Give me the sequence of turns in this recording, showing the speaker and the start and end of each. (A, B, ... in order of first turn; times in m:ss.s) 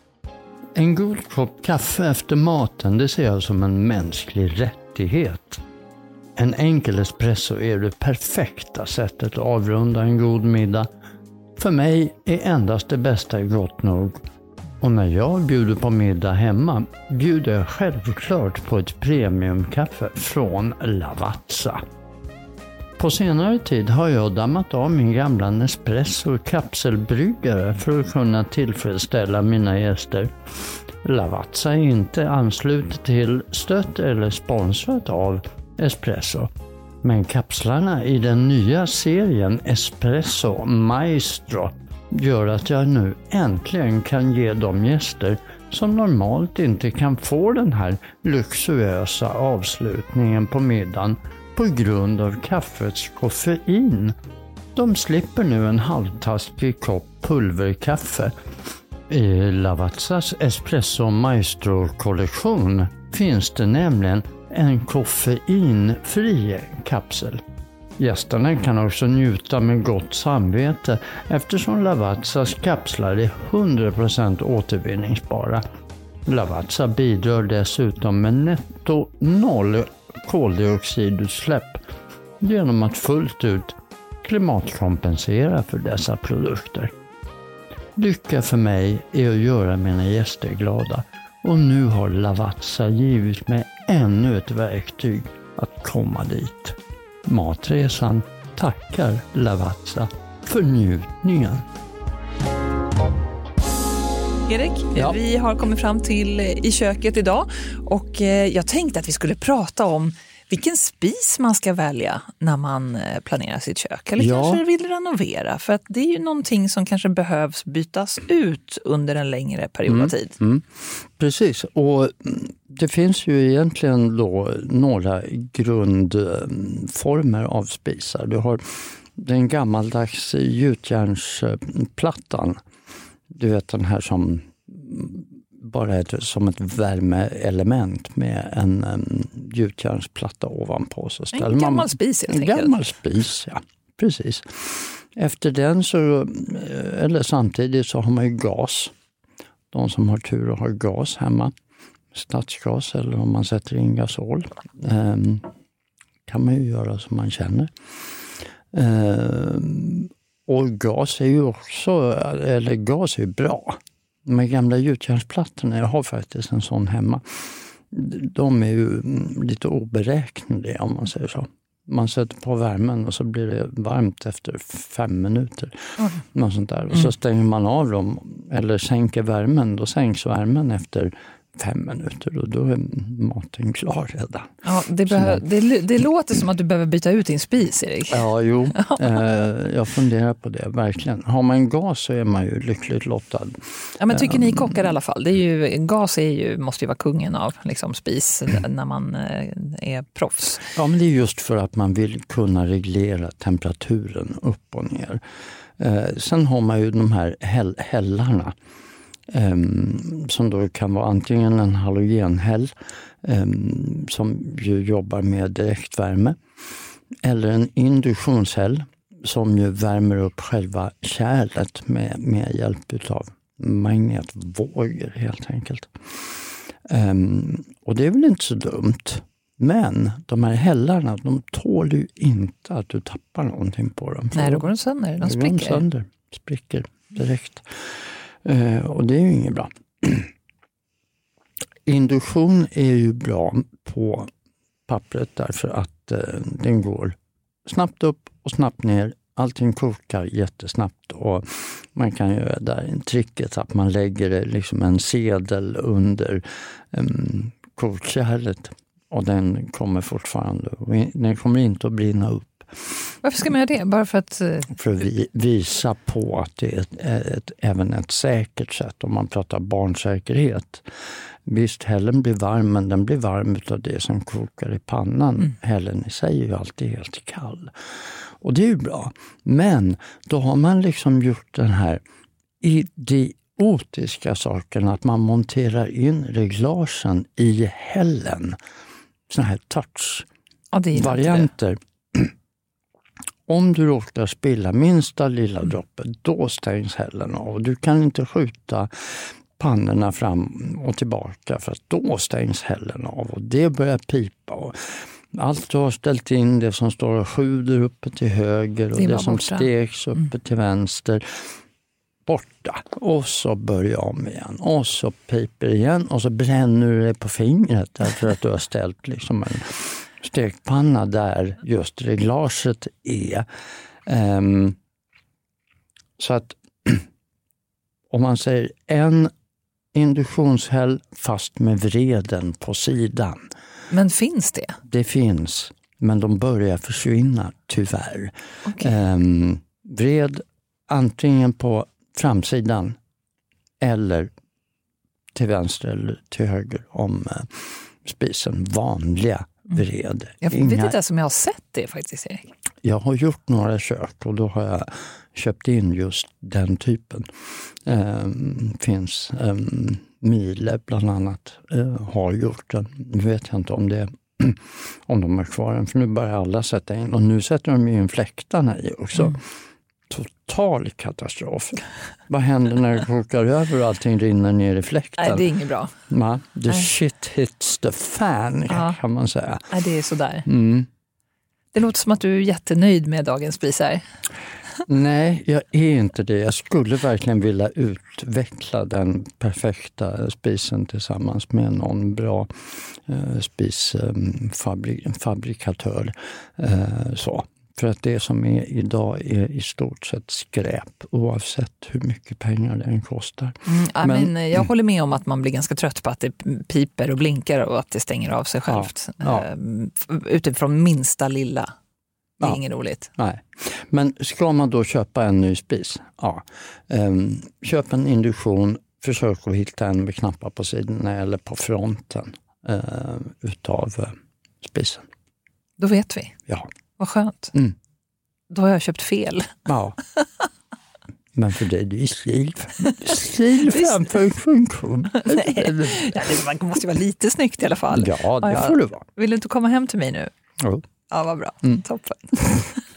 0:00.8-0:05.6 A
0:06.4-0:10.9 A
0:11.6-0:14.2 A
0:14.8-0:21.8 A
0:23.0-0:30.3 A
0:31.0-0:54.2 A
0:54.8-0:58.3 A
0:59.1-1:07.4 A
1:08.0-1:15.6 A
1:16.3-1:21.8 A
1:22.4-1:26.9 A
1:28.0-1:41.7 A
1:44.5-2:00.4 B
1:54.2-1:54.6 A
1:59.9-2:12.6 A
2:13.3-2:28.9 A
2:21.3-2:22.8 B
2:29.7-2:31.5 A
2:32.1-2:35.5 A
2:36.3-2:37.7 A
2:38.7-3:04.5 A
3:04.6-3:09.1 B
3:05.1-3:05.4 A
3:08.1-3:14.7 A
3:14.0-3:20.7 B
3:20.7-3:25.2 A
3:25.8-3:28.6 A
3:29.3-3:36.4 A
3:37.2-3:46.3 A
3:46.9-4:00.3 A
3:54.4-3:55.8 B
4:01.9-4:04.3 A
4:04.9-4:23.0 A
4:23.2-4:24.7 B
4:24.7-4:30.9 A
4:31.5-4:42.0 A
4:42.6-4:48.6 A
4:49.3-4:50.3 A
4:50.7-4:51.5 B
4:50.9-4:52.3 A
4:53.5-5:11.5 A
5:08.9-5:09.7 B
5:12.3-5:23.5 A
5:24.1-5:24.8 A
5:26.2-5:27.1 A
5:28.1-5:29.3 A
5:29.9-5:33.5 A
5:33.9-5:34.8 B
5:34.9-5:43.0 A
5:38.7-5:38.9 B
5:43.8-5:44.3 A
5:45.3-5:51.0 A
5:50.4-5:52.5 B
5:52.8-5:57.3 A
5:57.8-6:09.4 A
6:10.1-6:15.5 A
6:15.2-6:15.9 B
6:16.1-6:19.7 A
6:18.7-6:19.0 B
6:19.7-6:20.5 B
6:20.5-6:20.9 A
6:21.7-6:24.0 B
6:24.9-6:44.6 A
6:43.7-6:51.7 B
6:48.7-6:49.5 A
6:52.4-6:53.1 B
6:53.2-7:05.1 A
7:05.8-7:06.3 B
7:07.0-7:07.5 B
7:08.5-7:09.5 B
7:09.7-7:10.0 A
7:11.4-7:16.3 A
7:13.7-7:14.1 B
7:15.1-7:20.3 B
7:17.9-7:19.0 A
7:21.1-7:22.8 B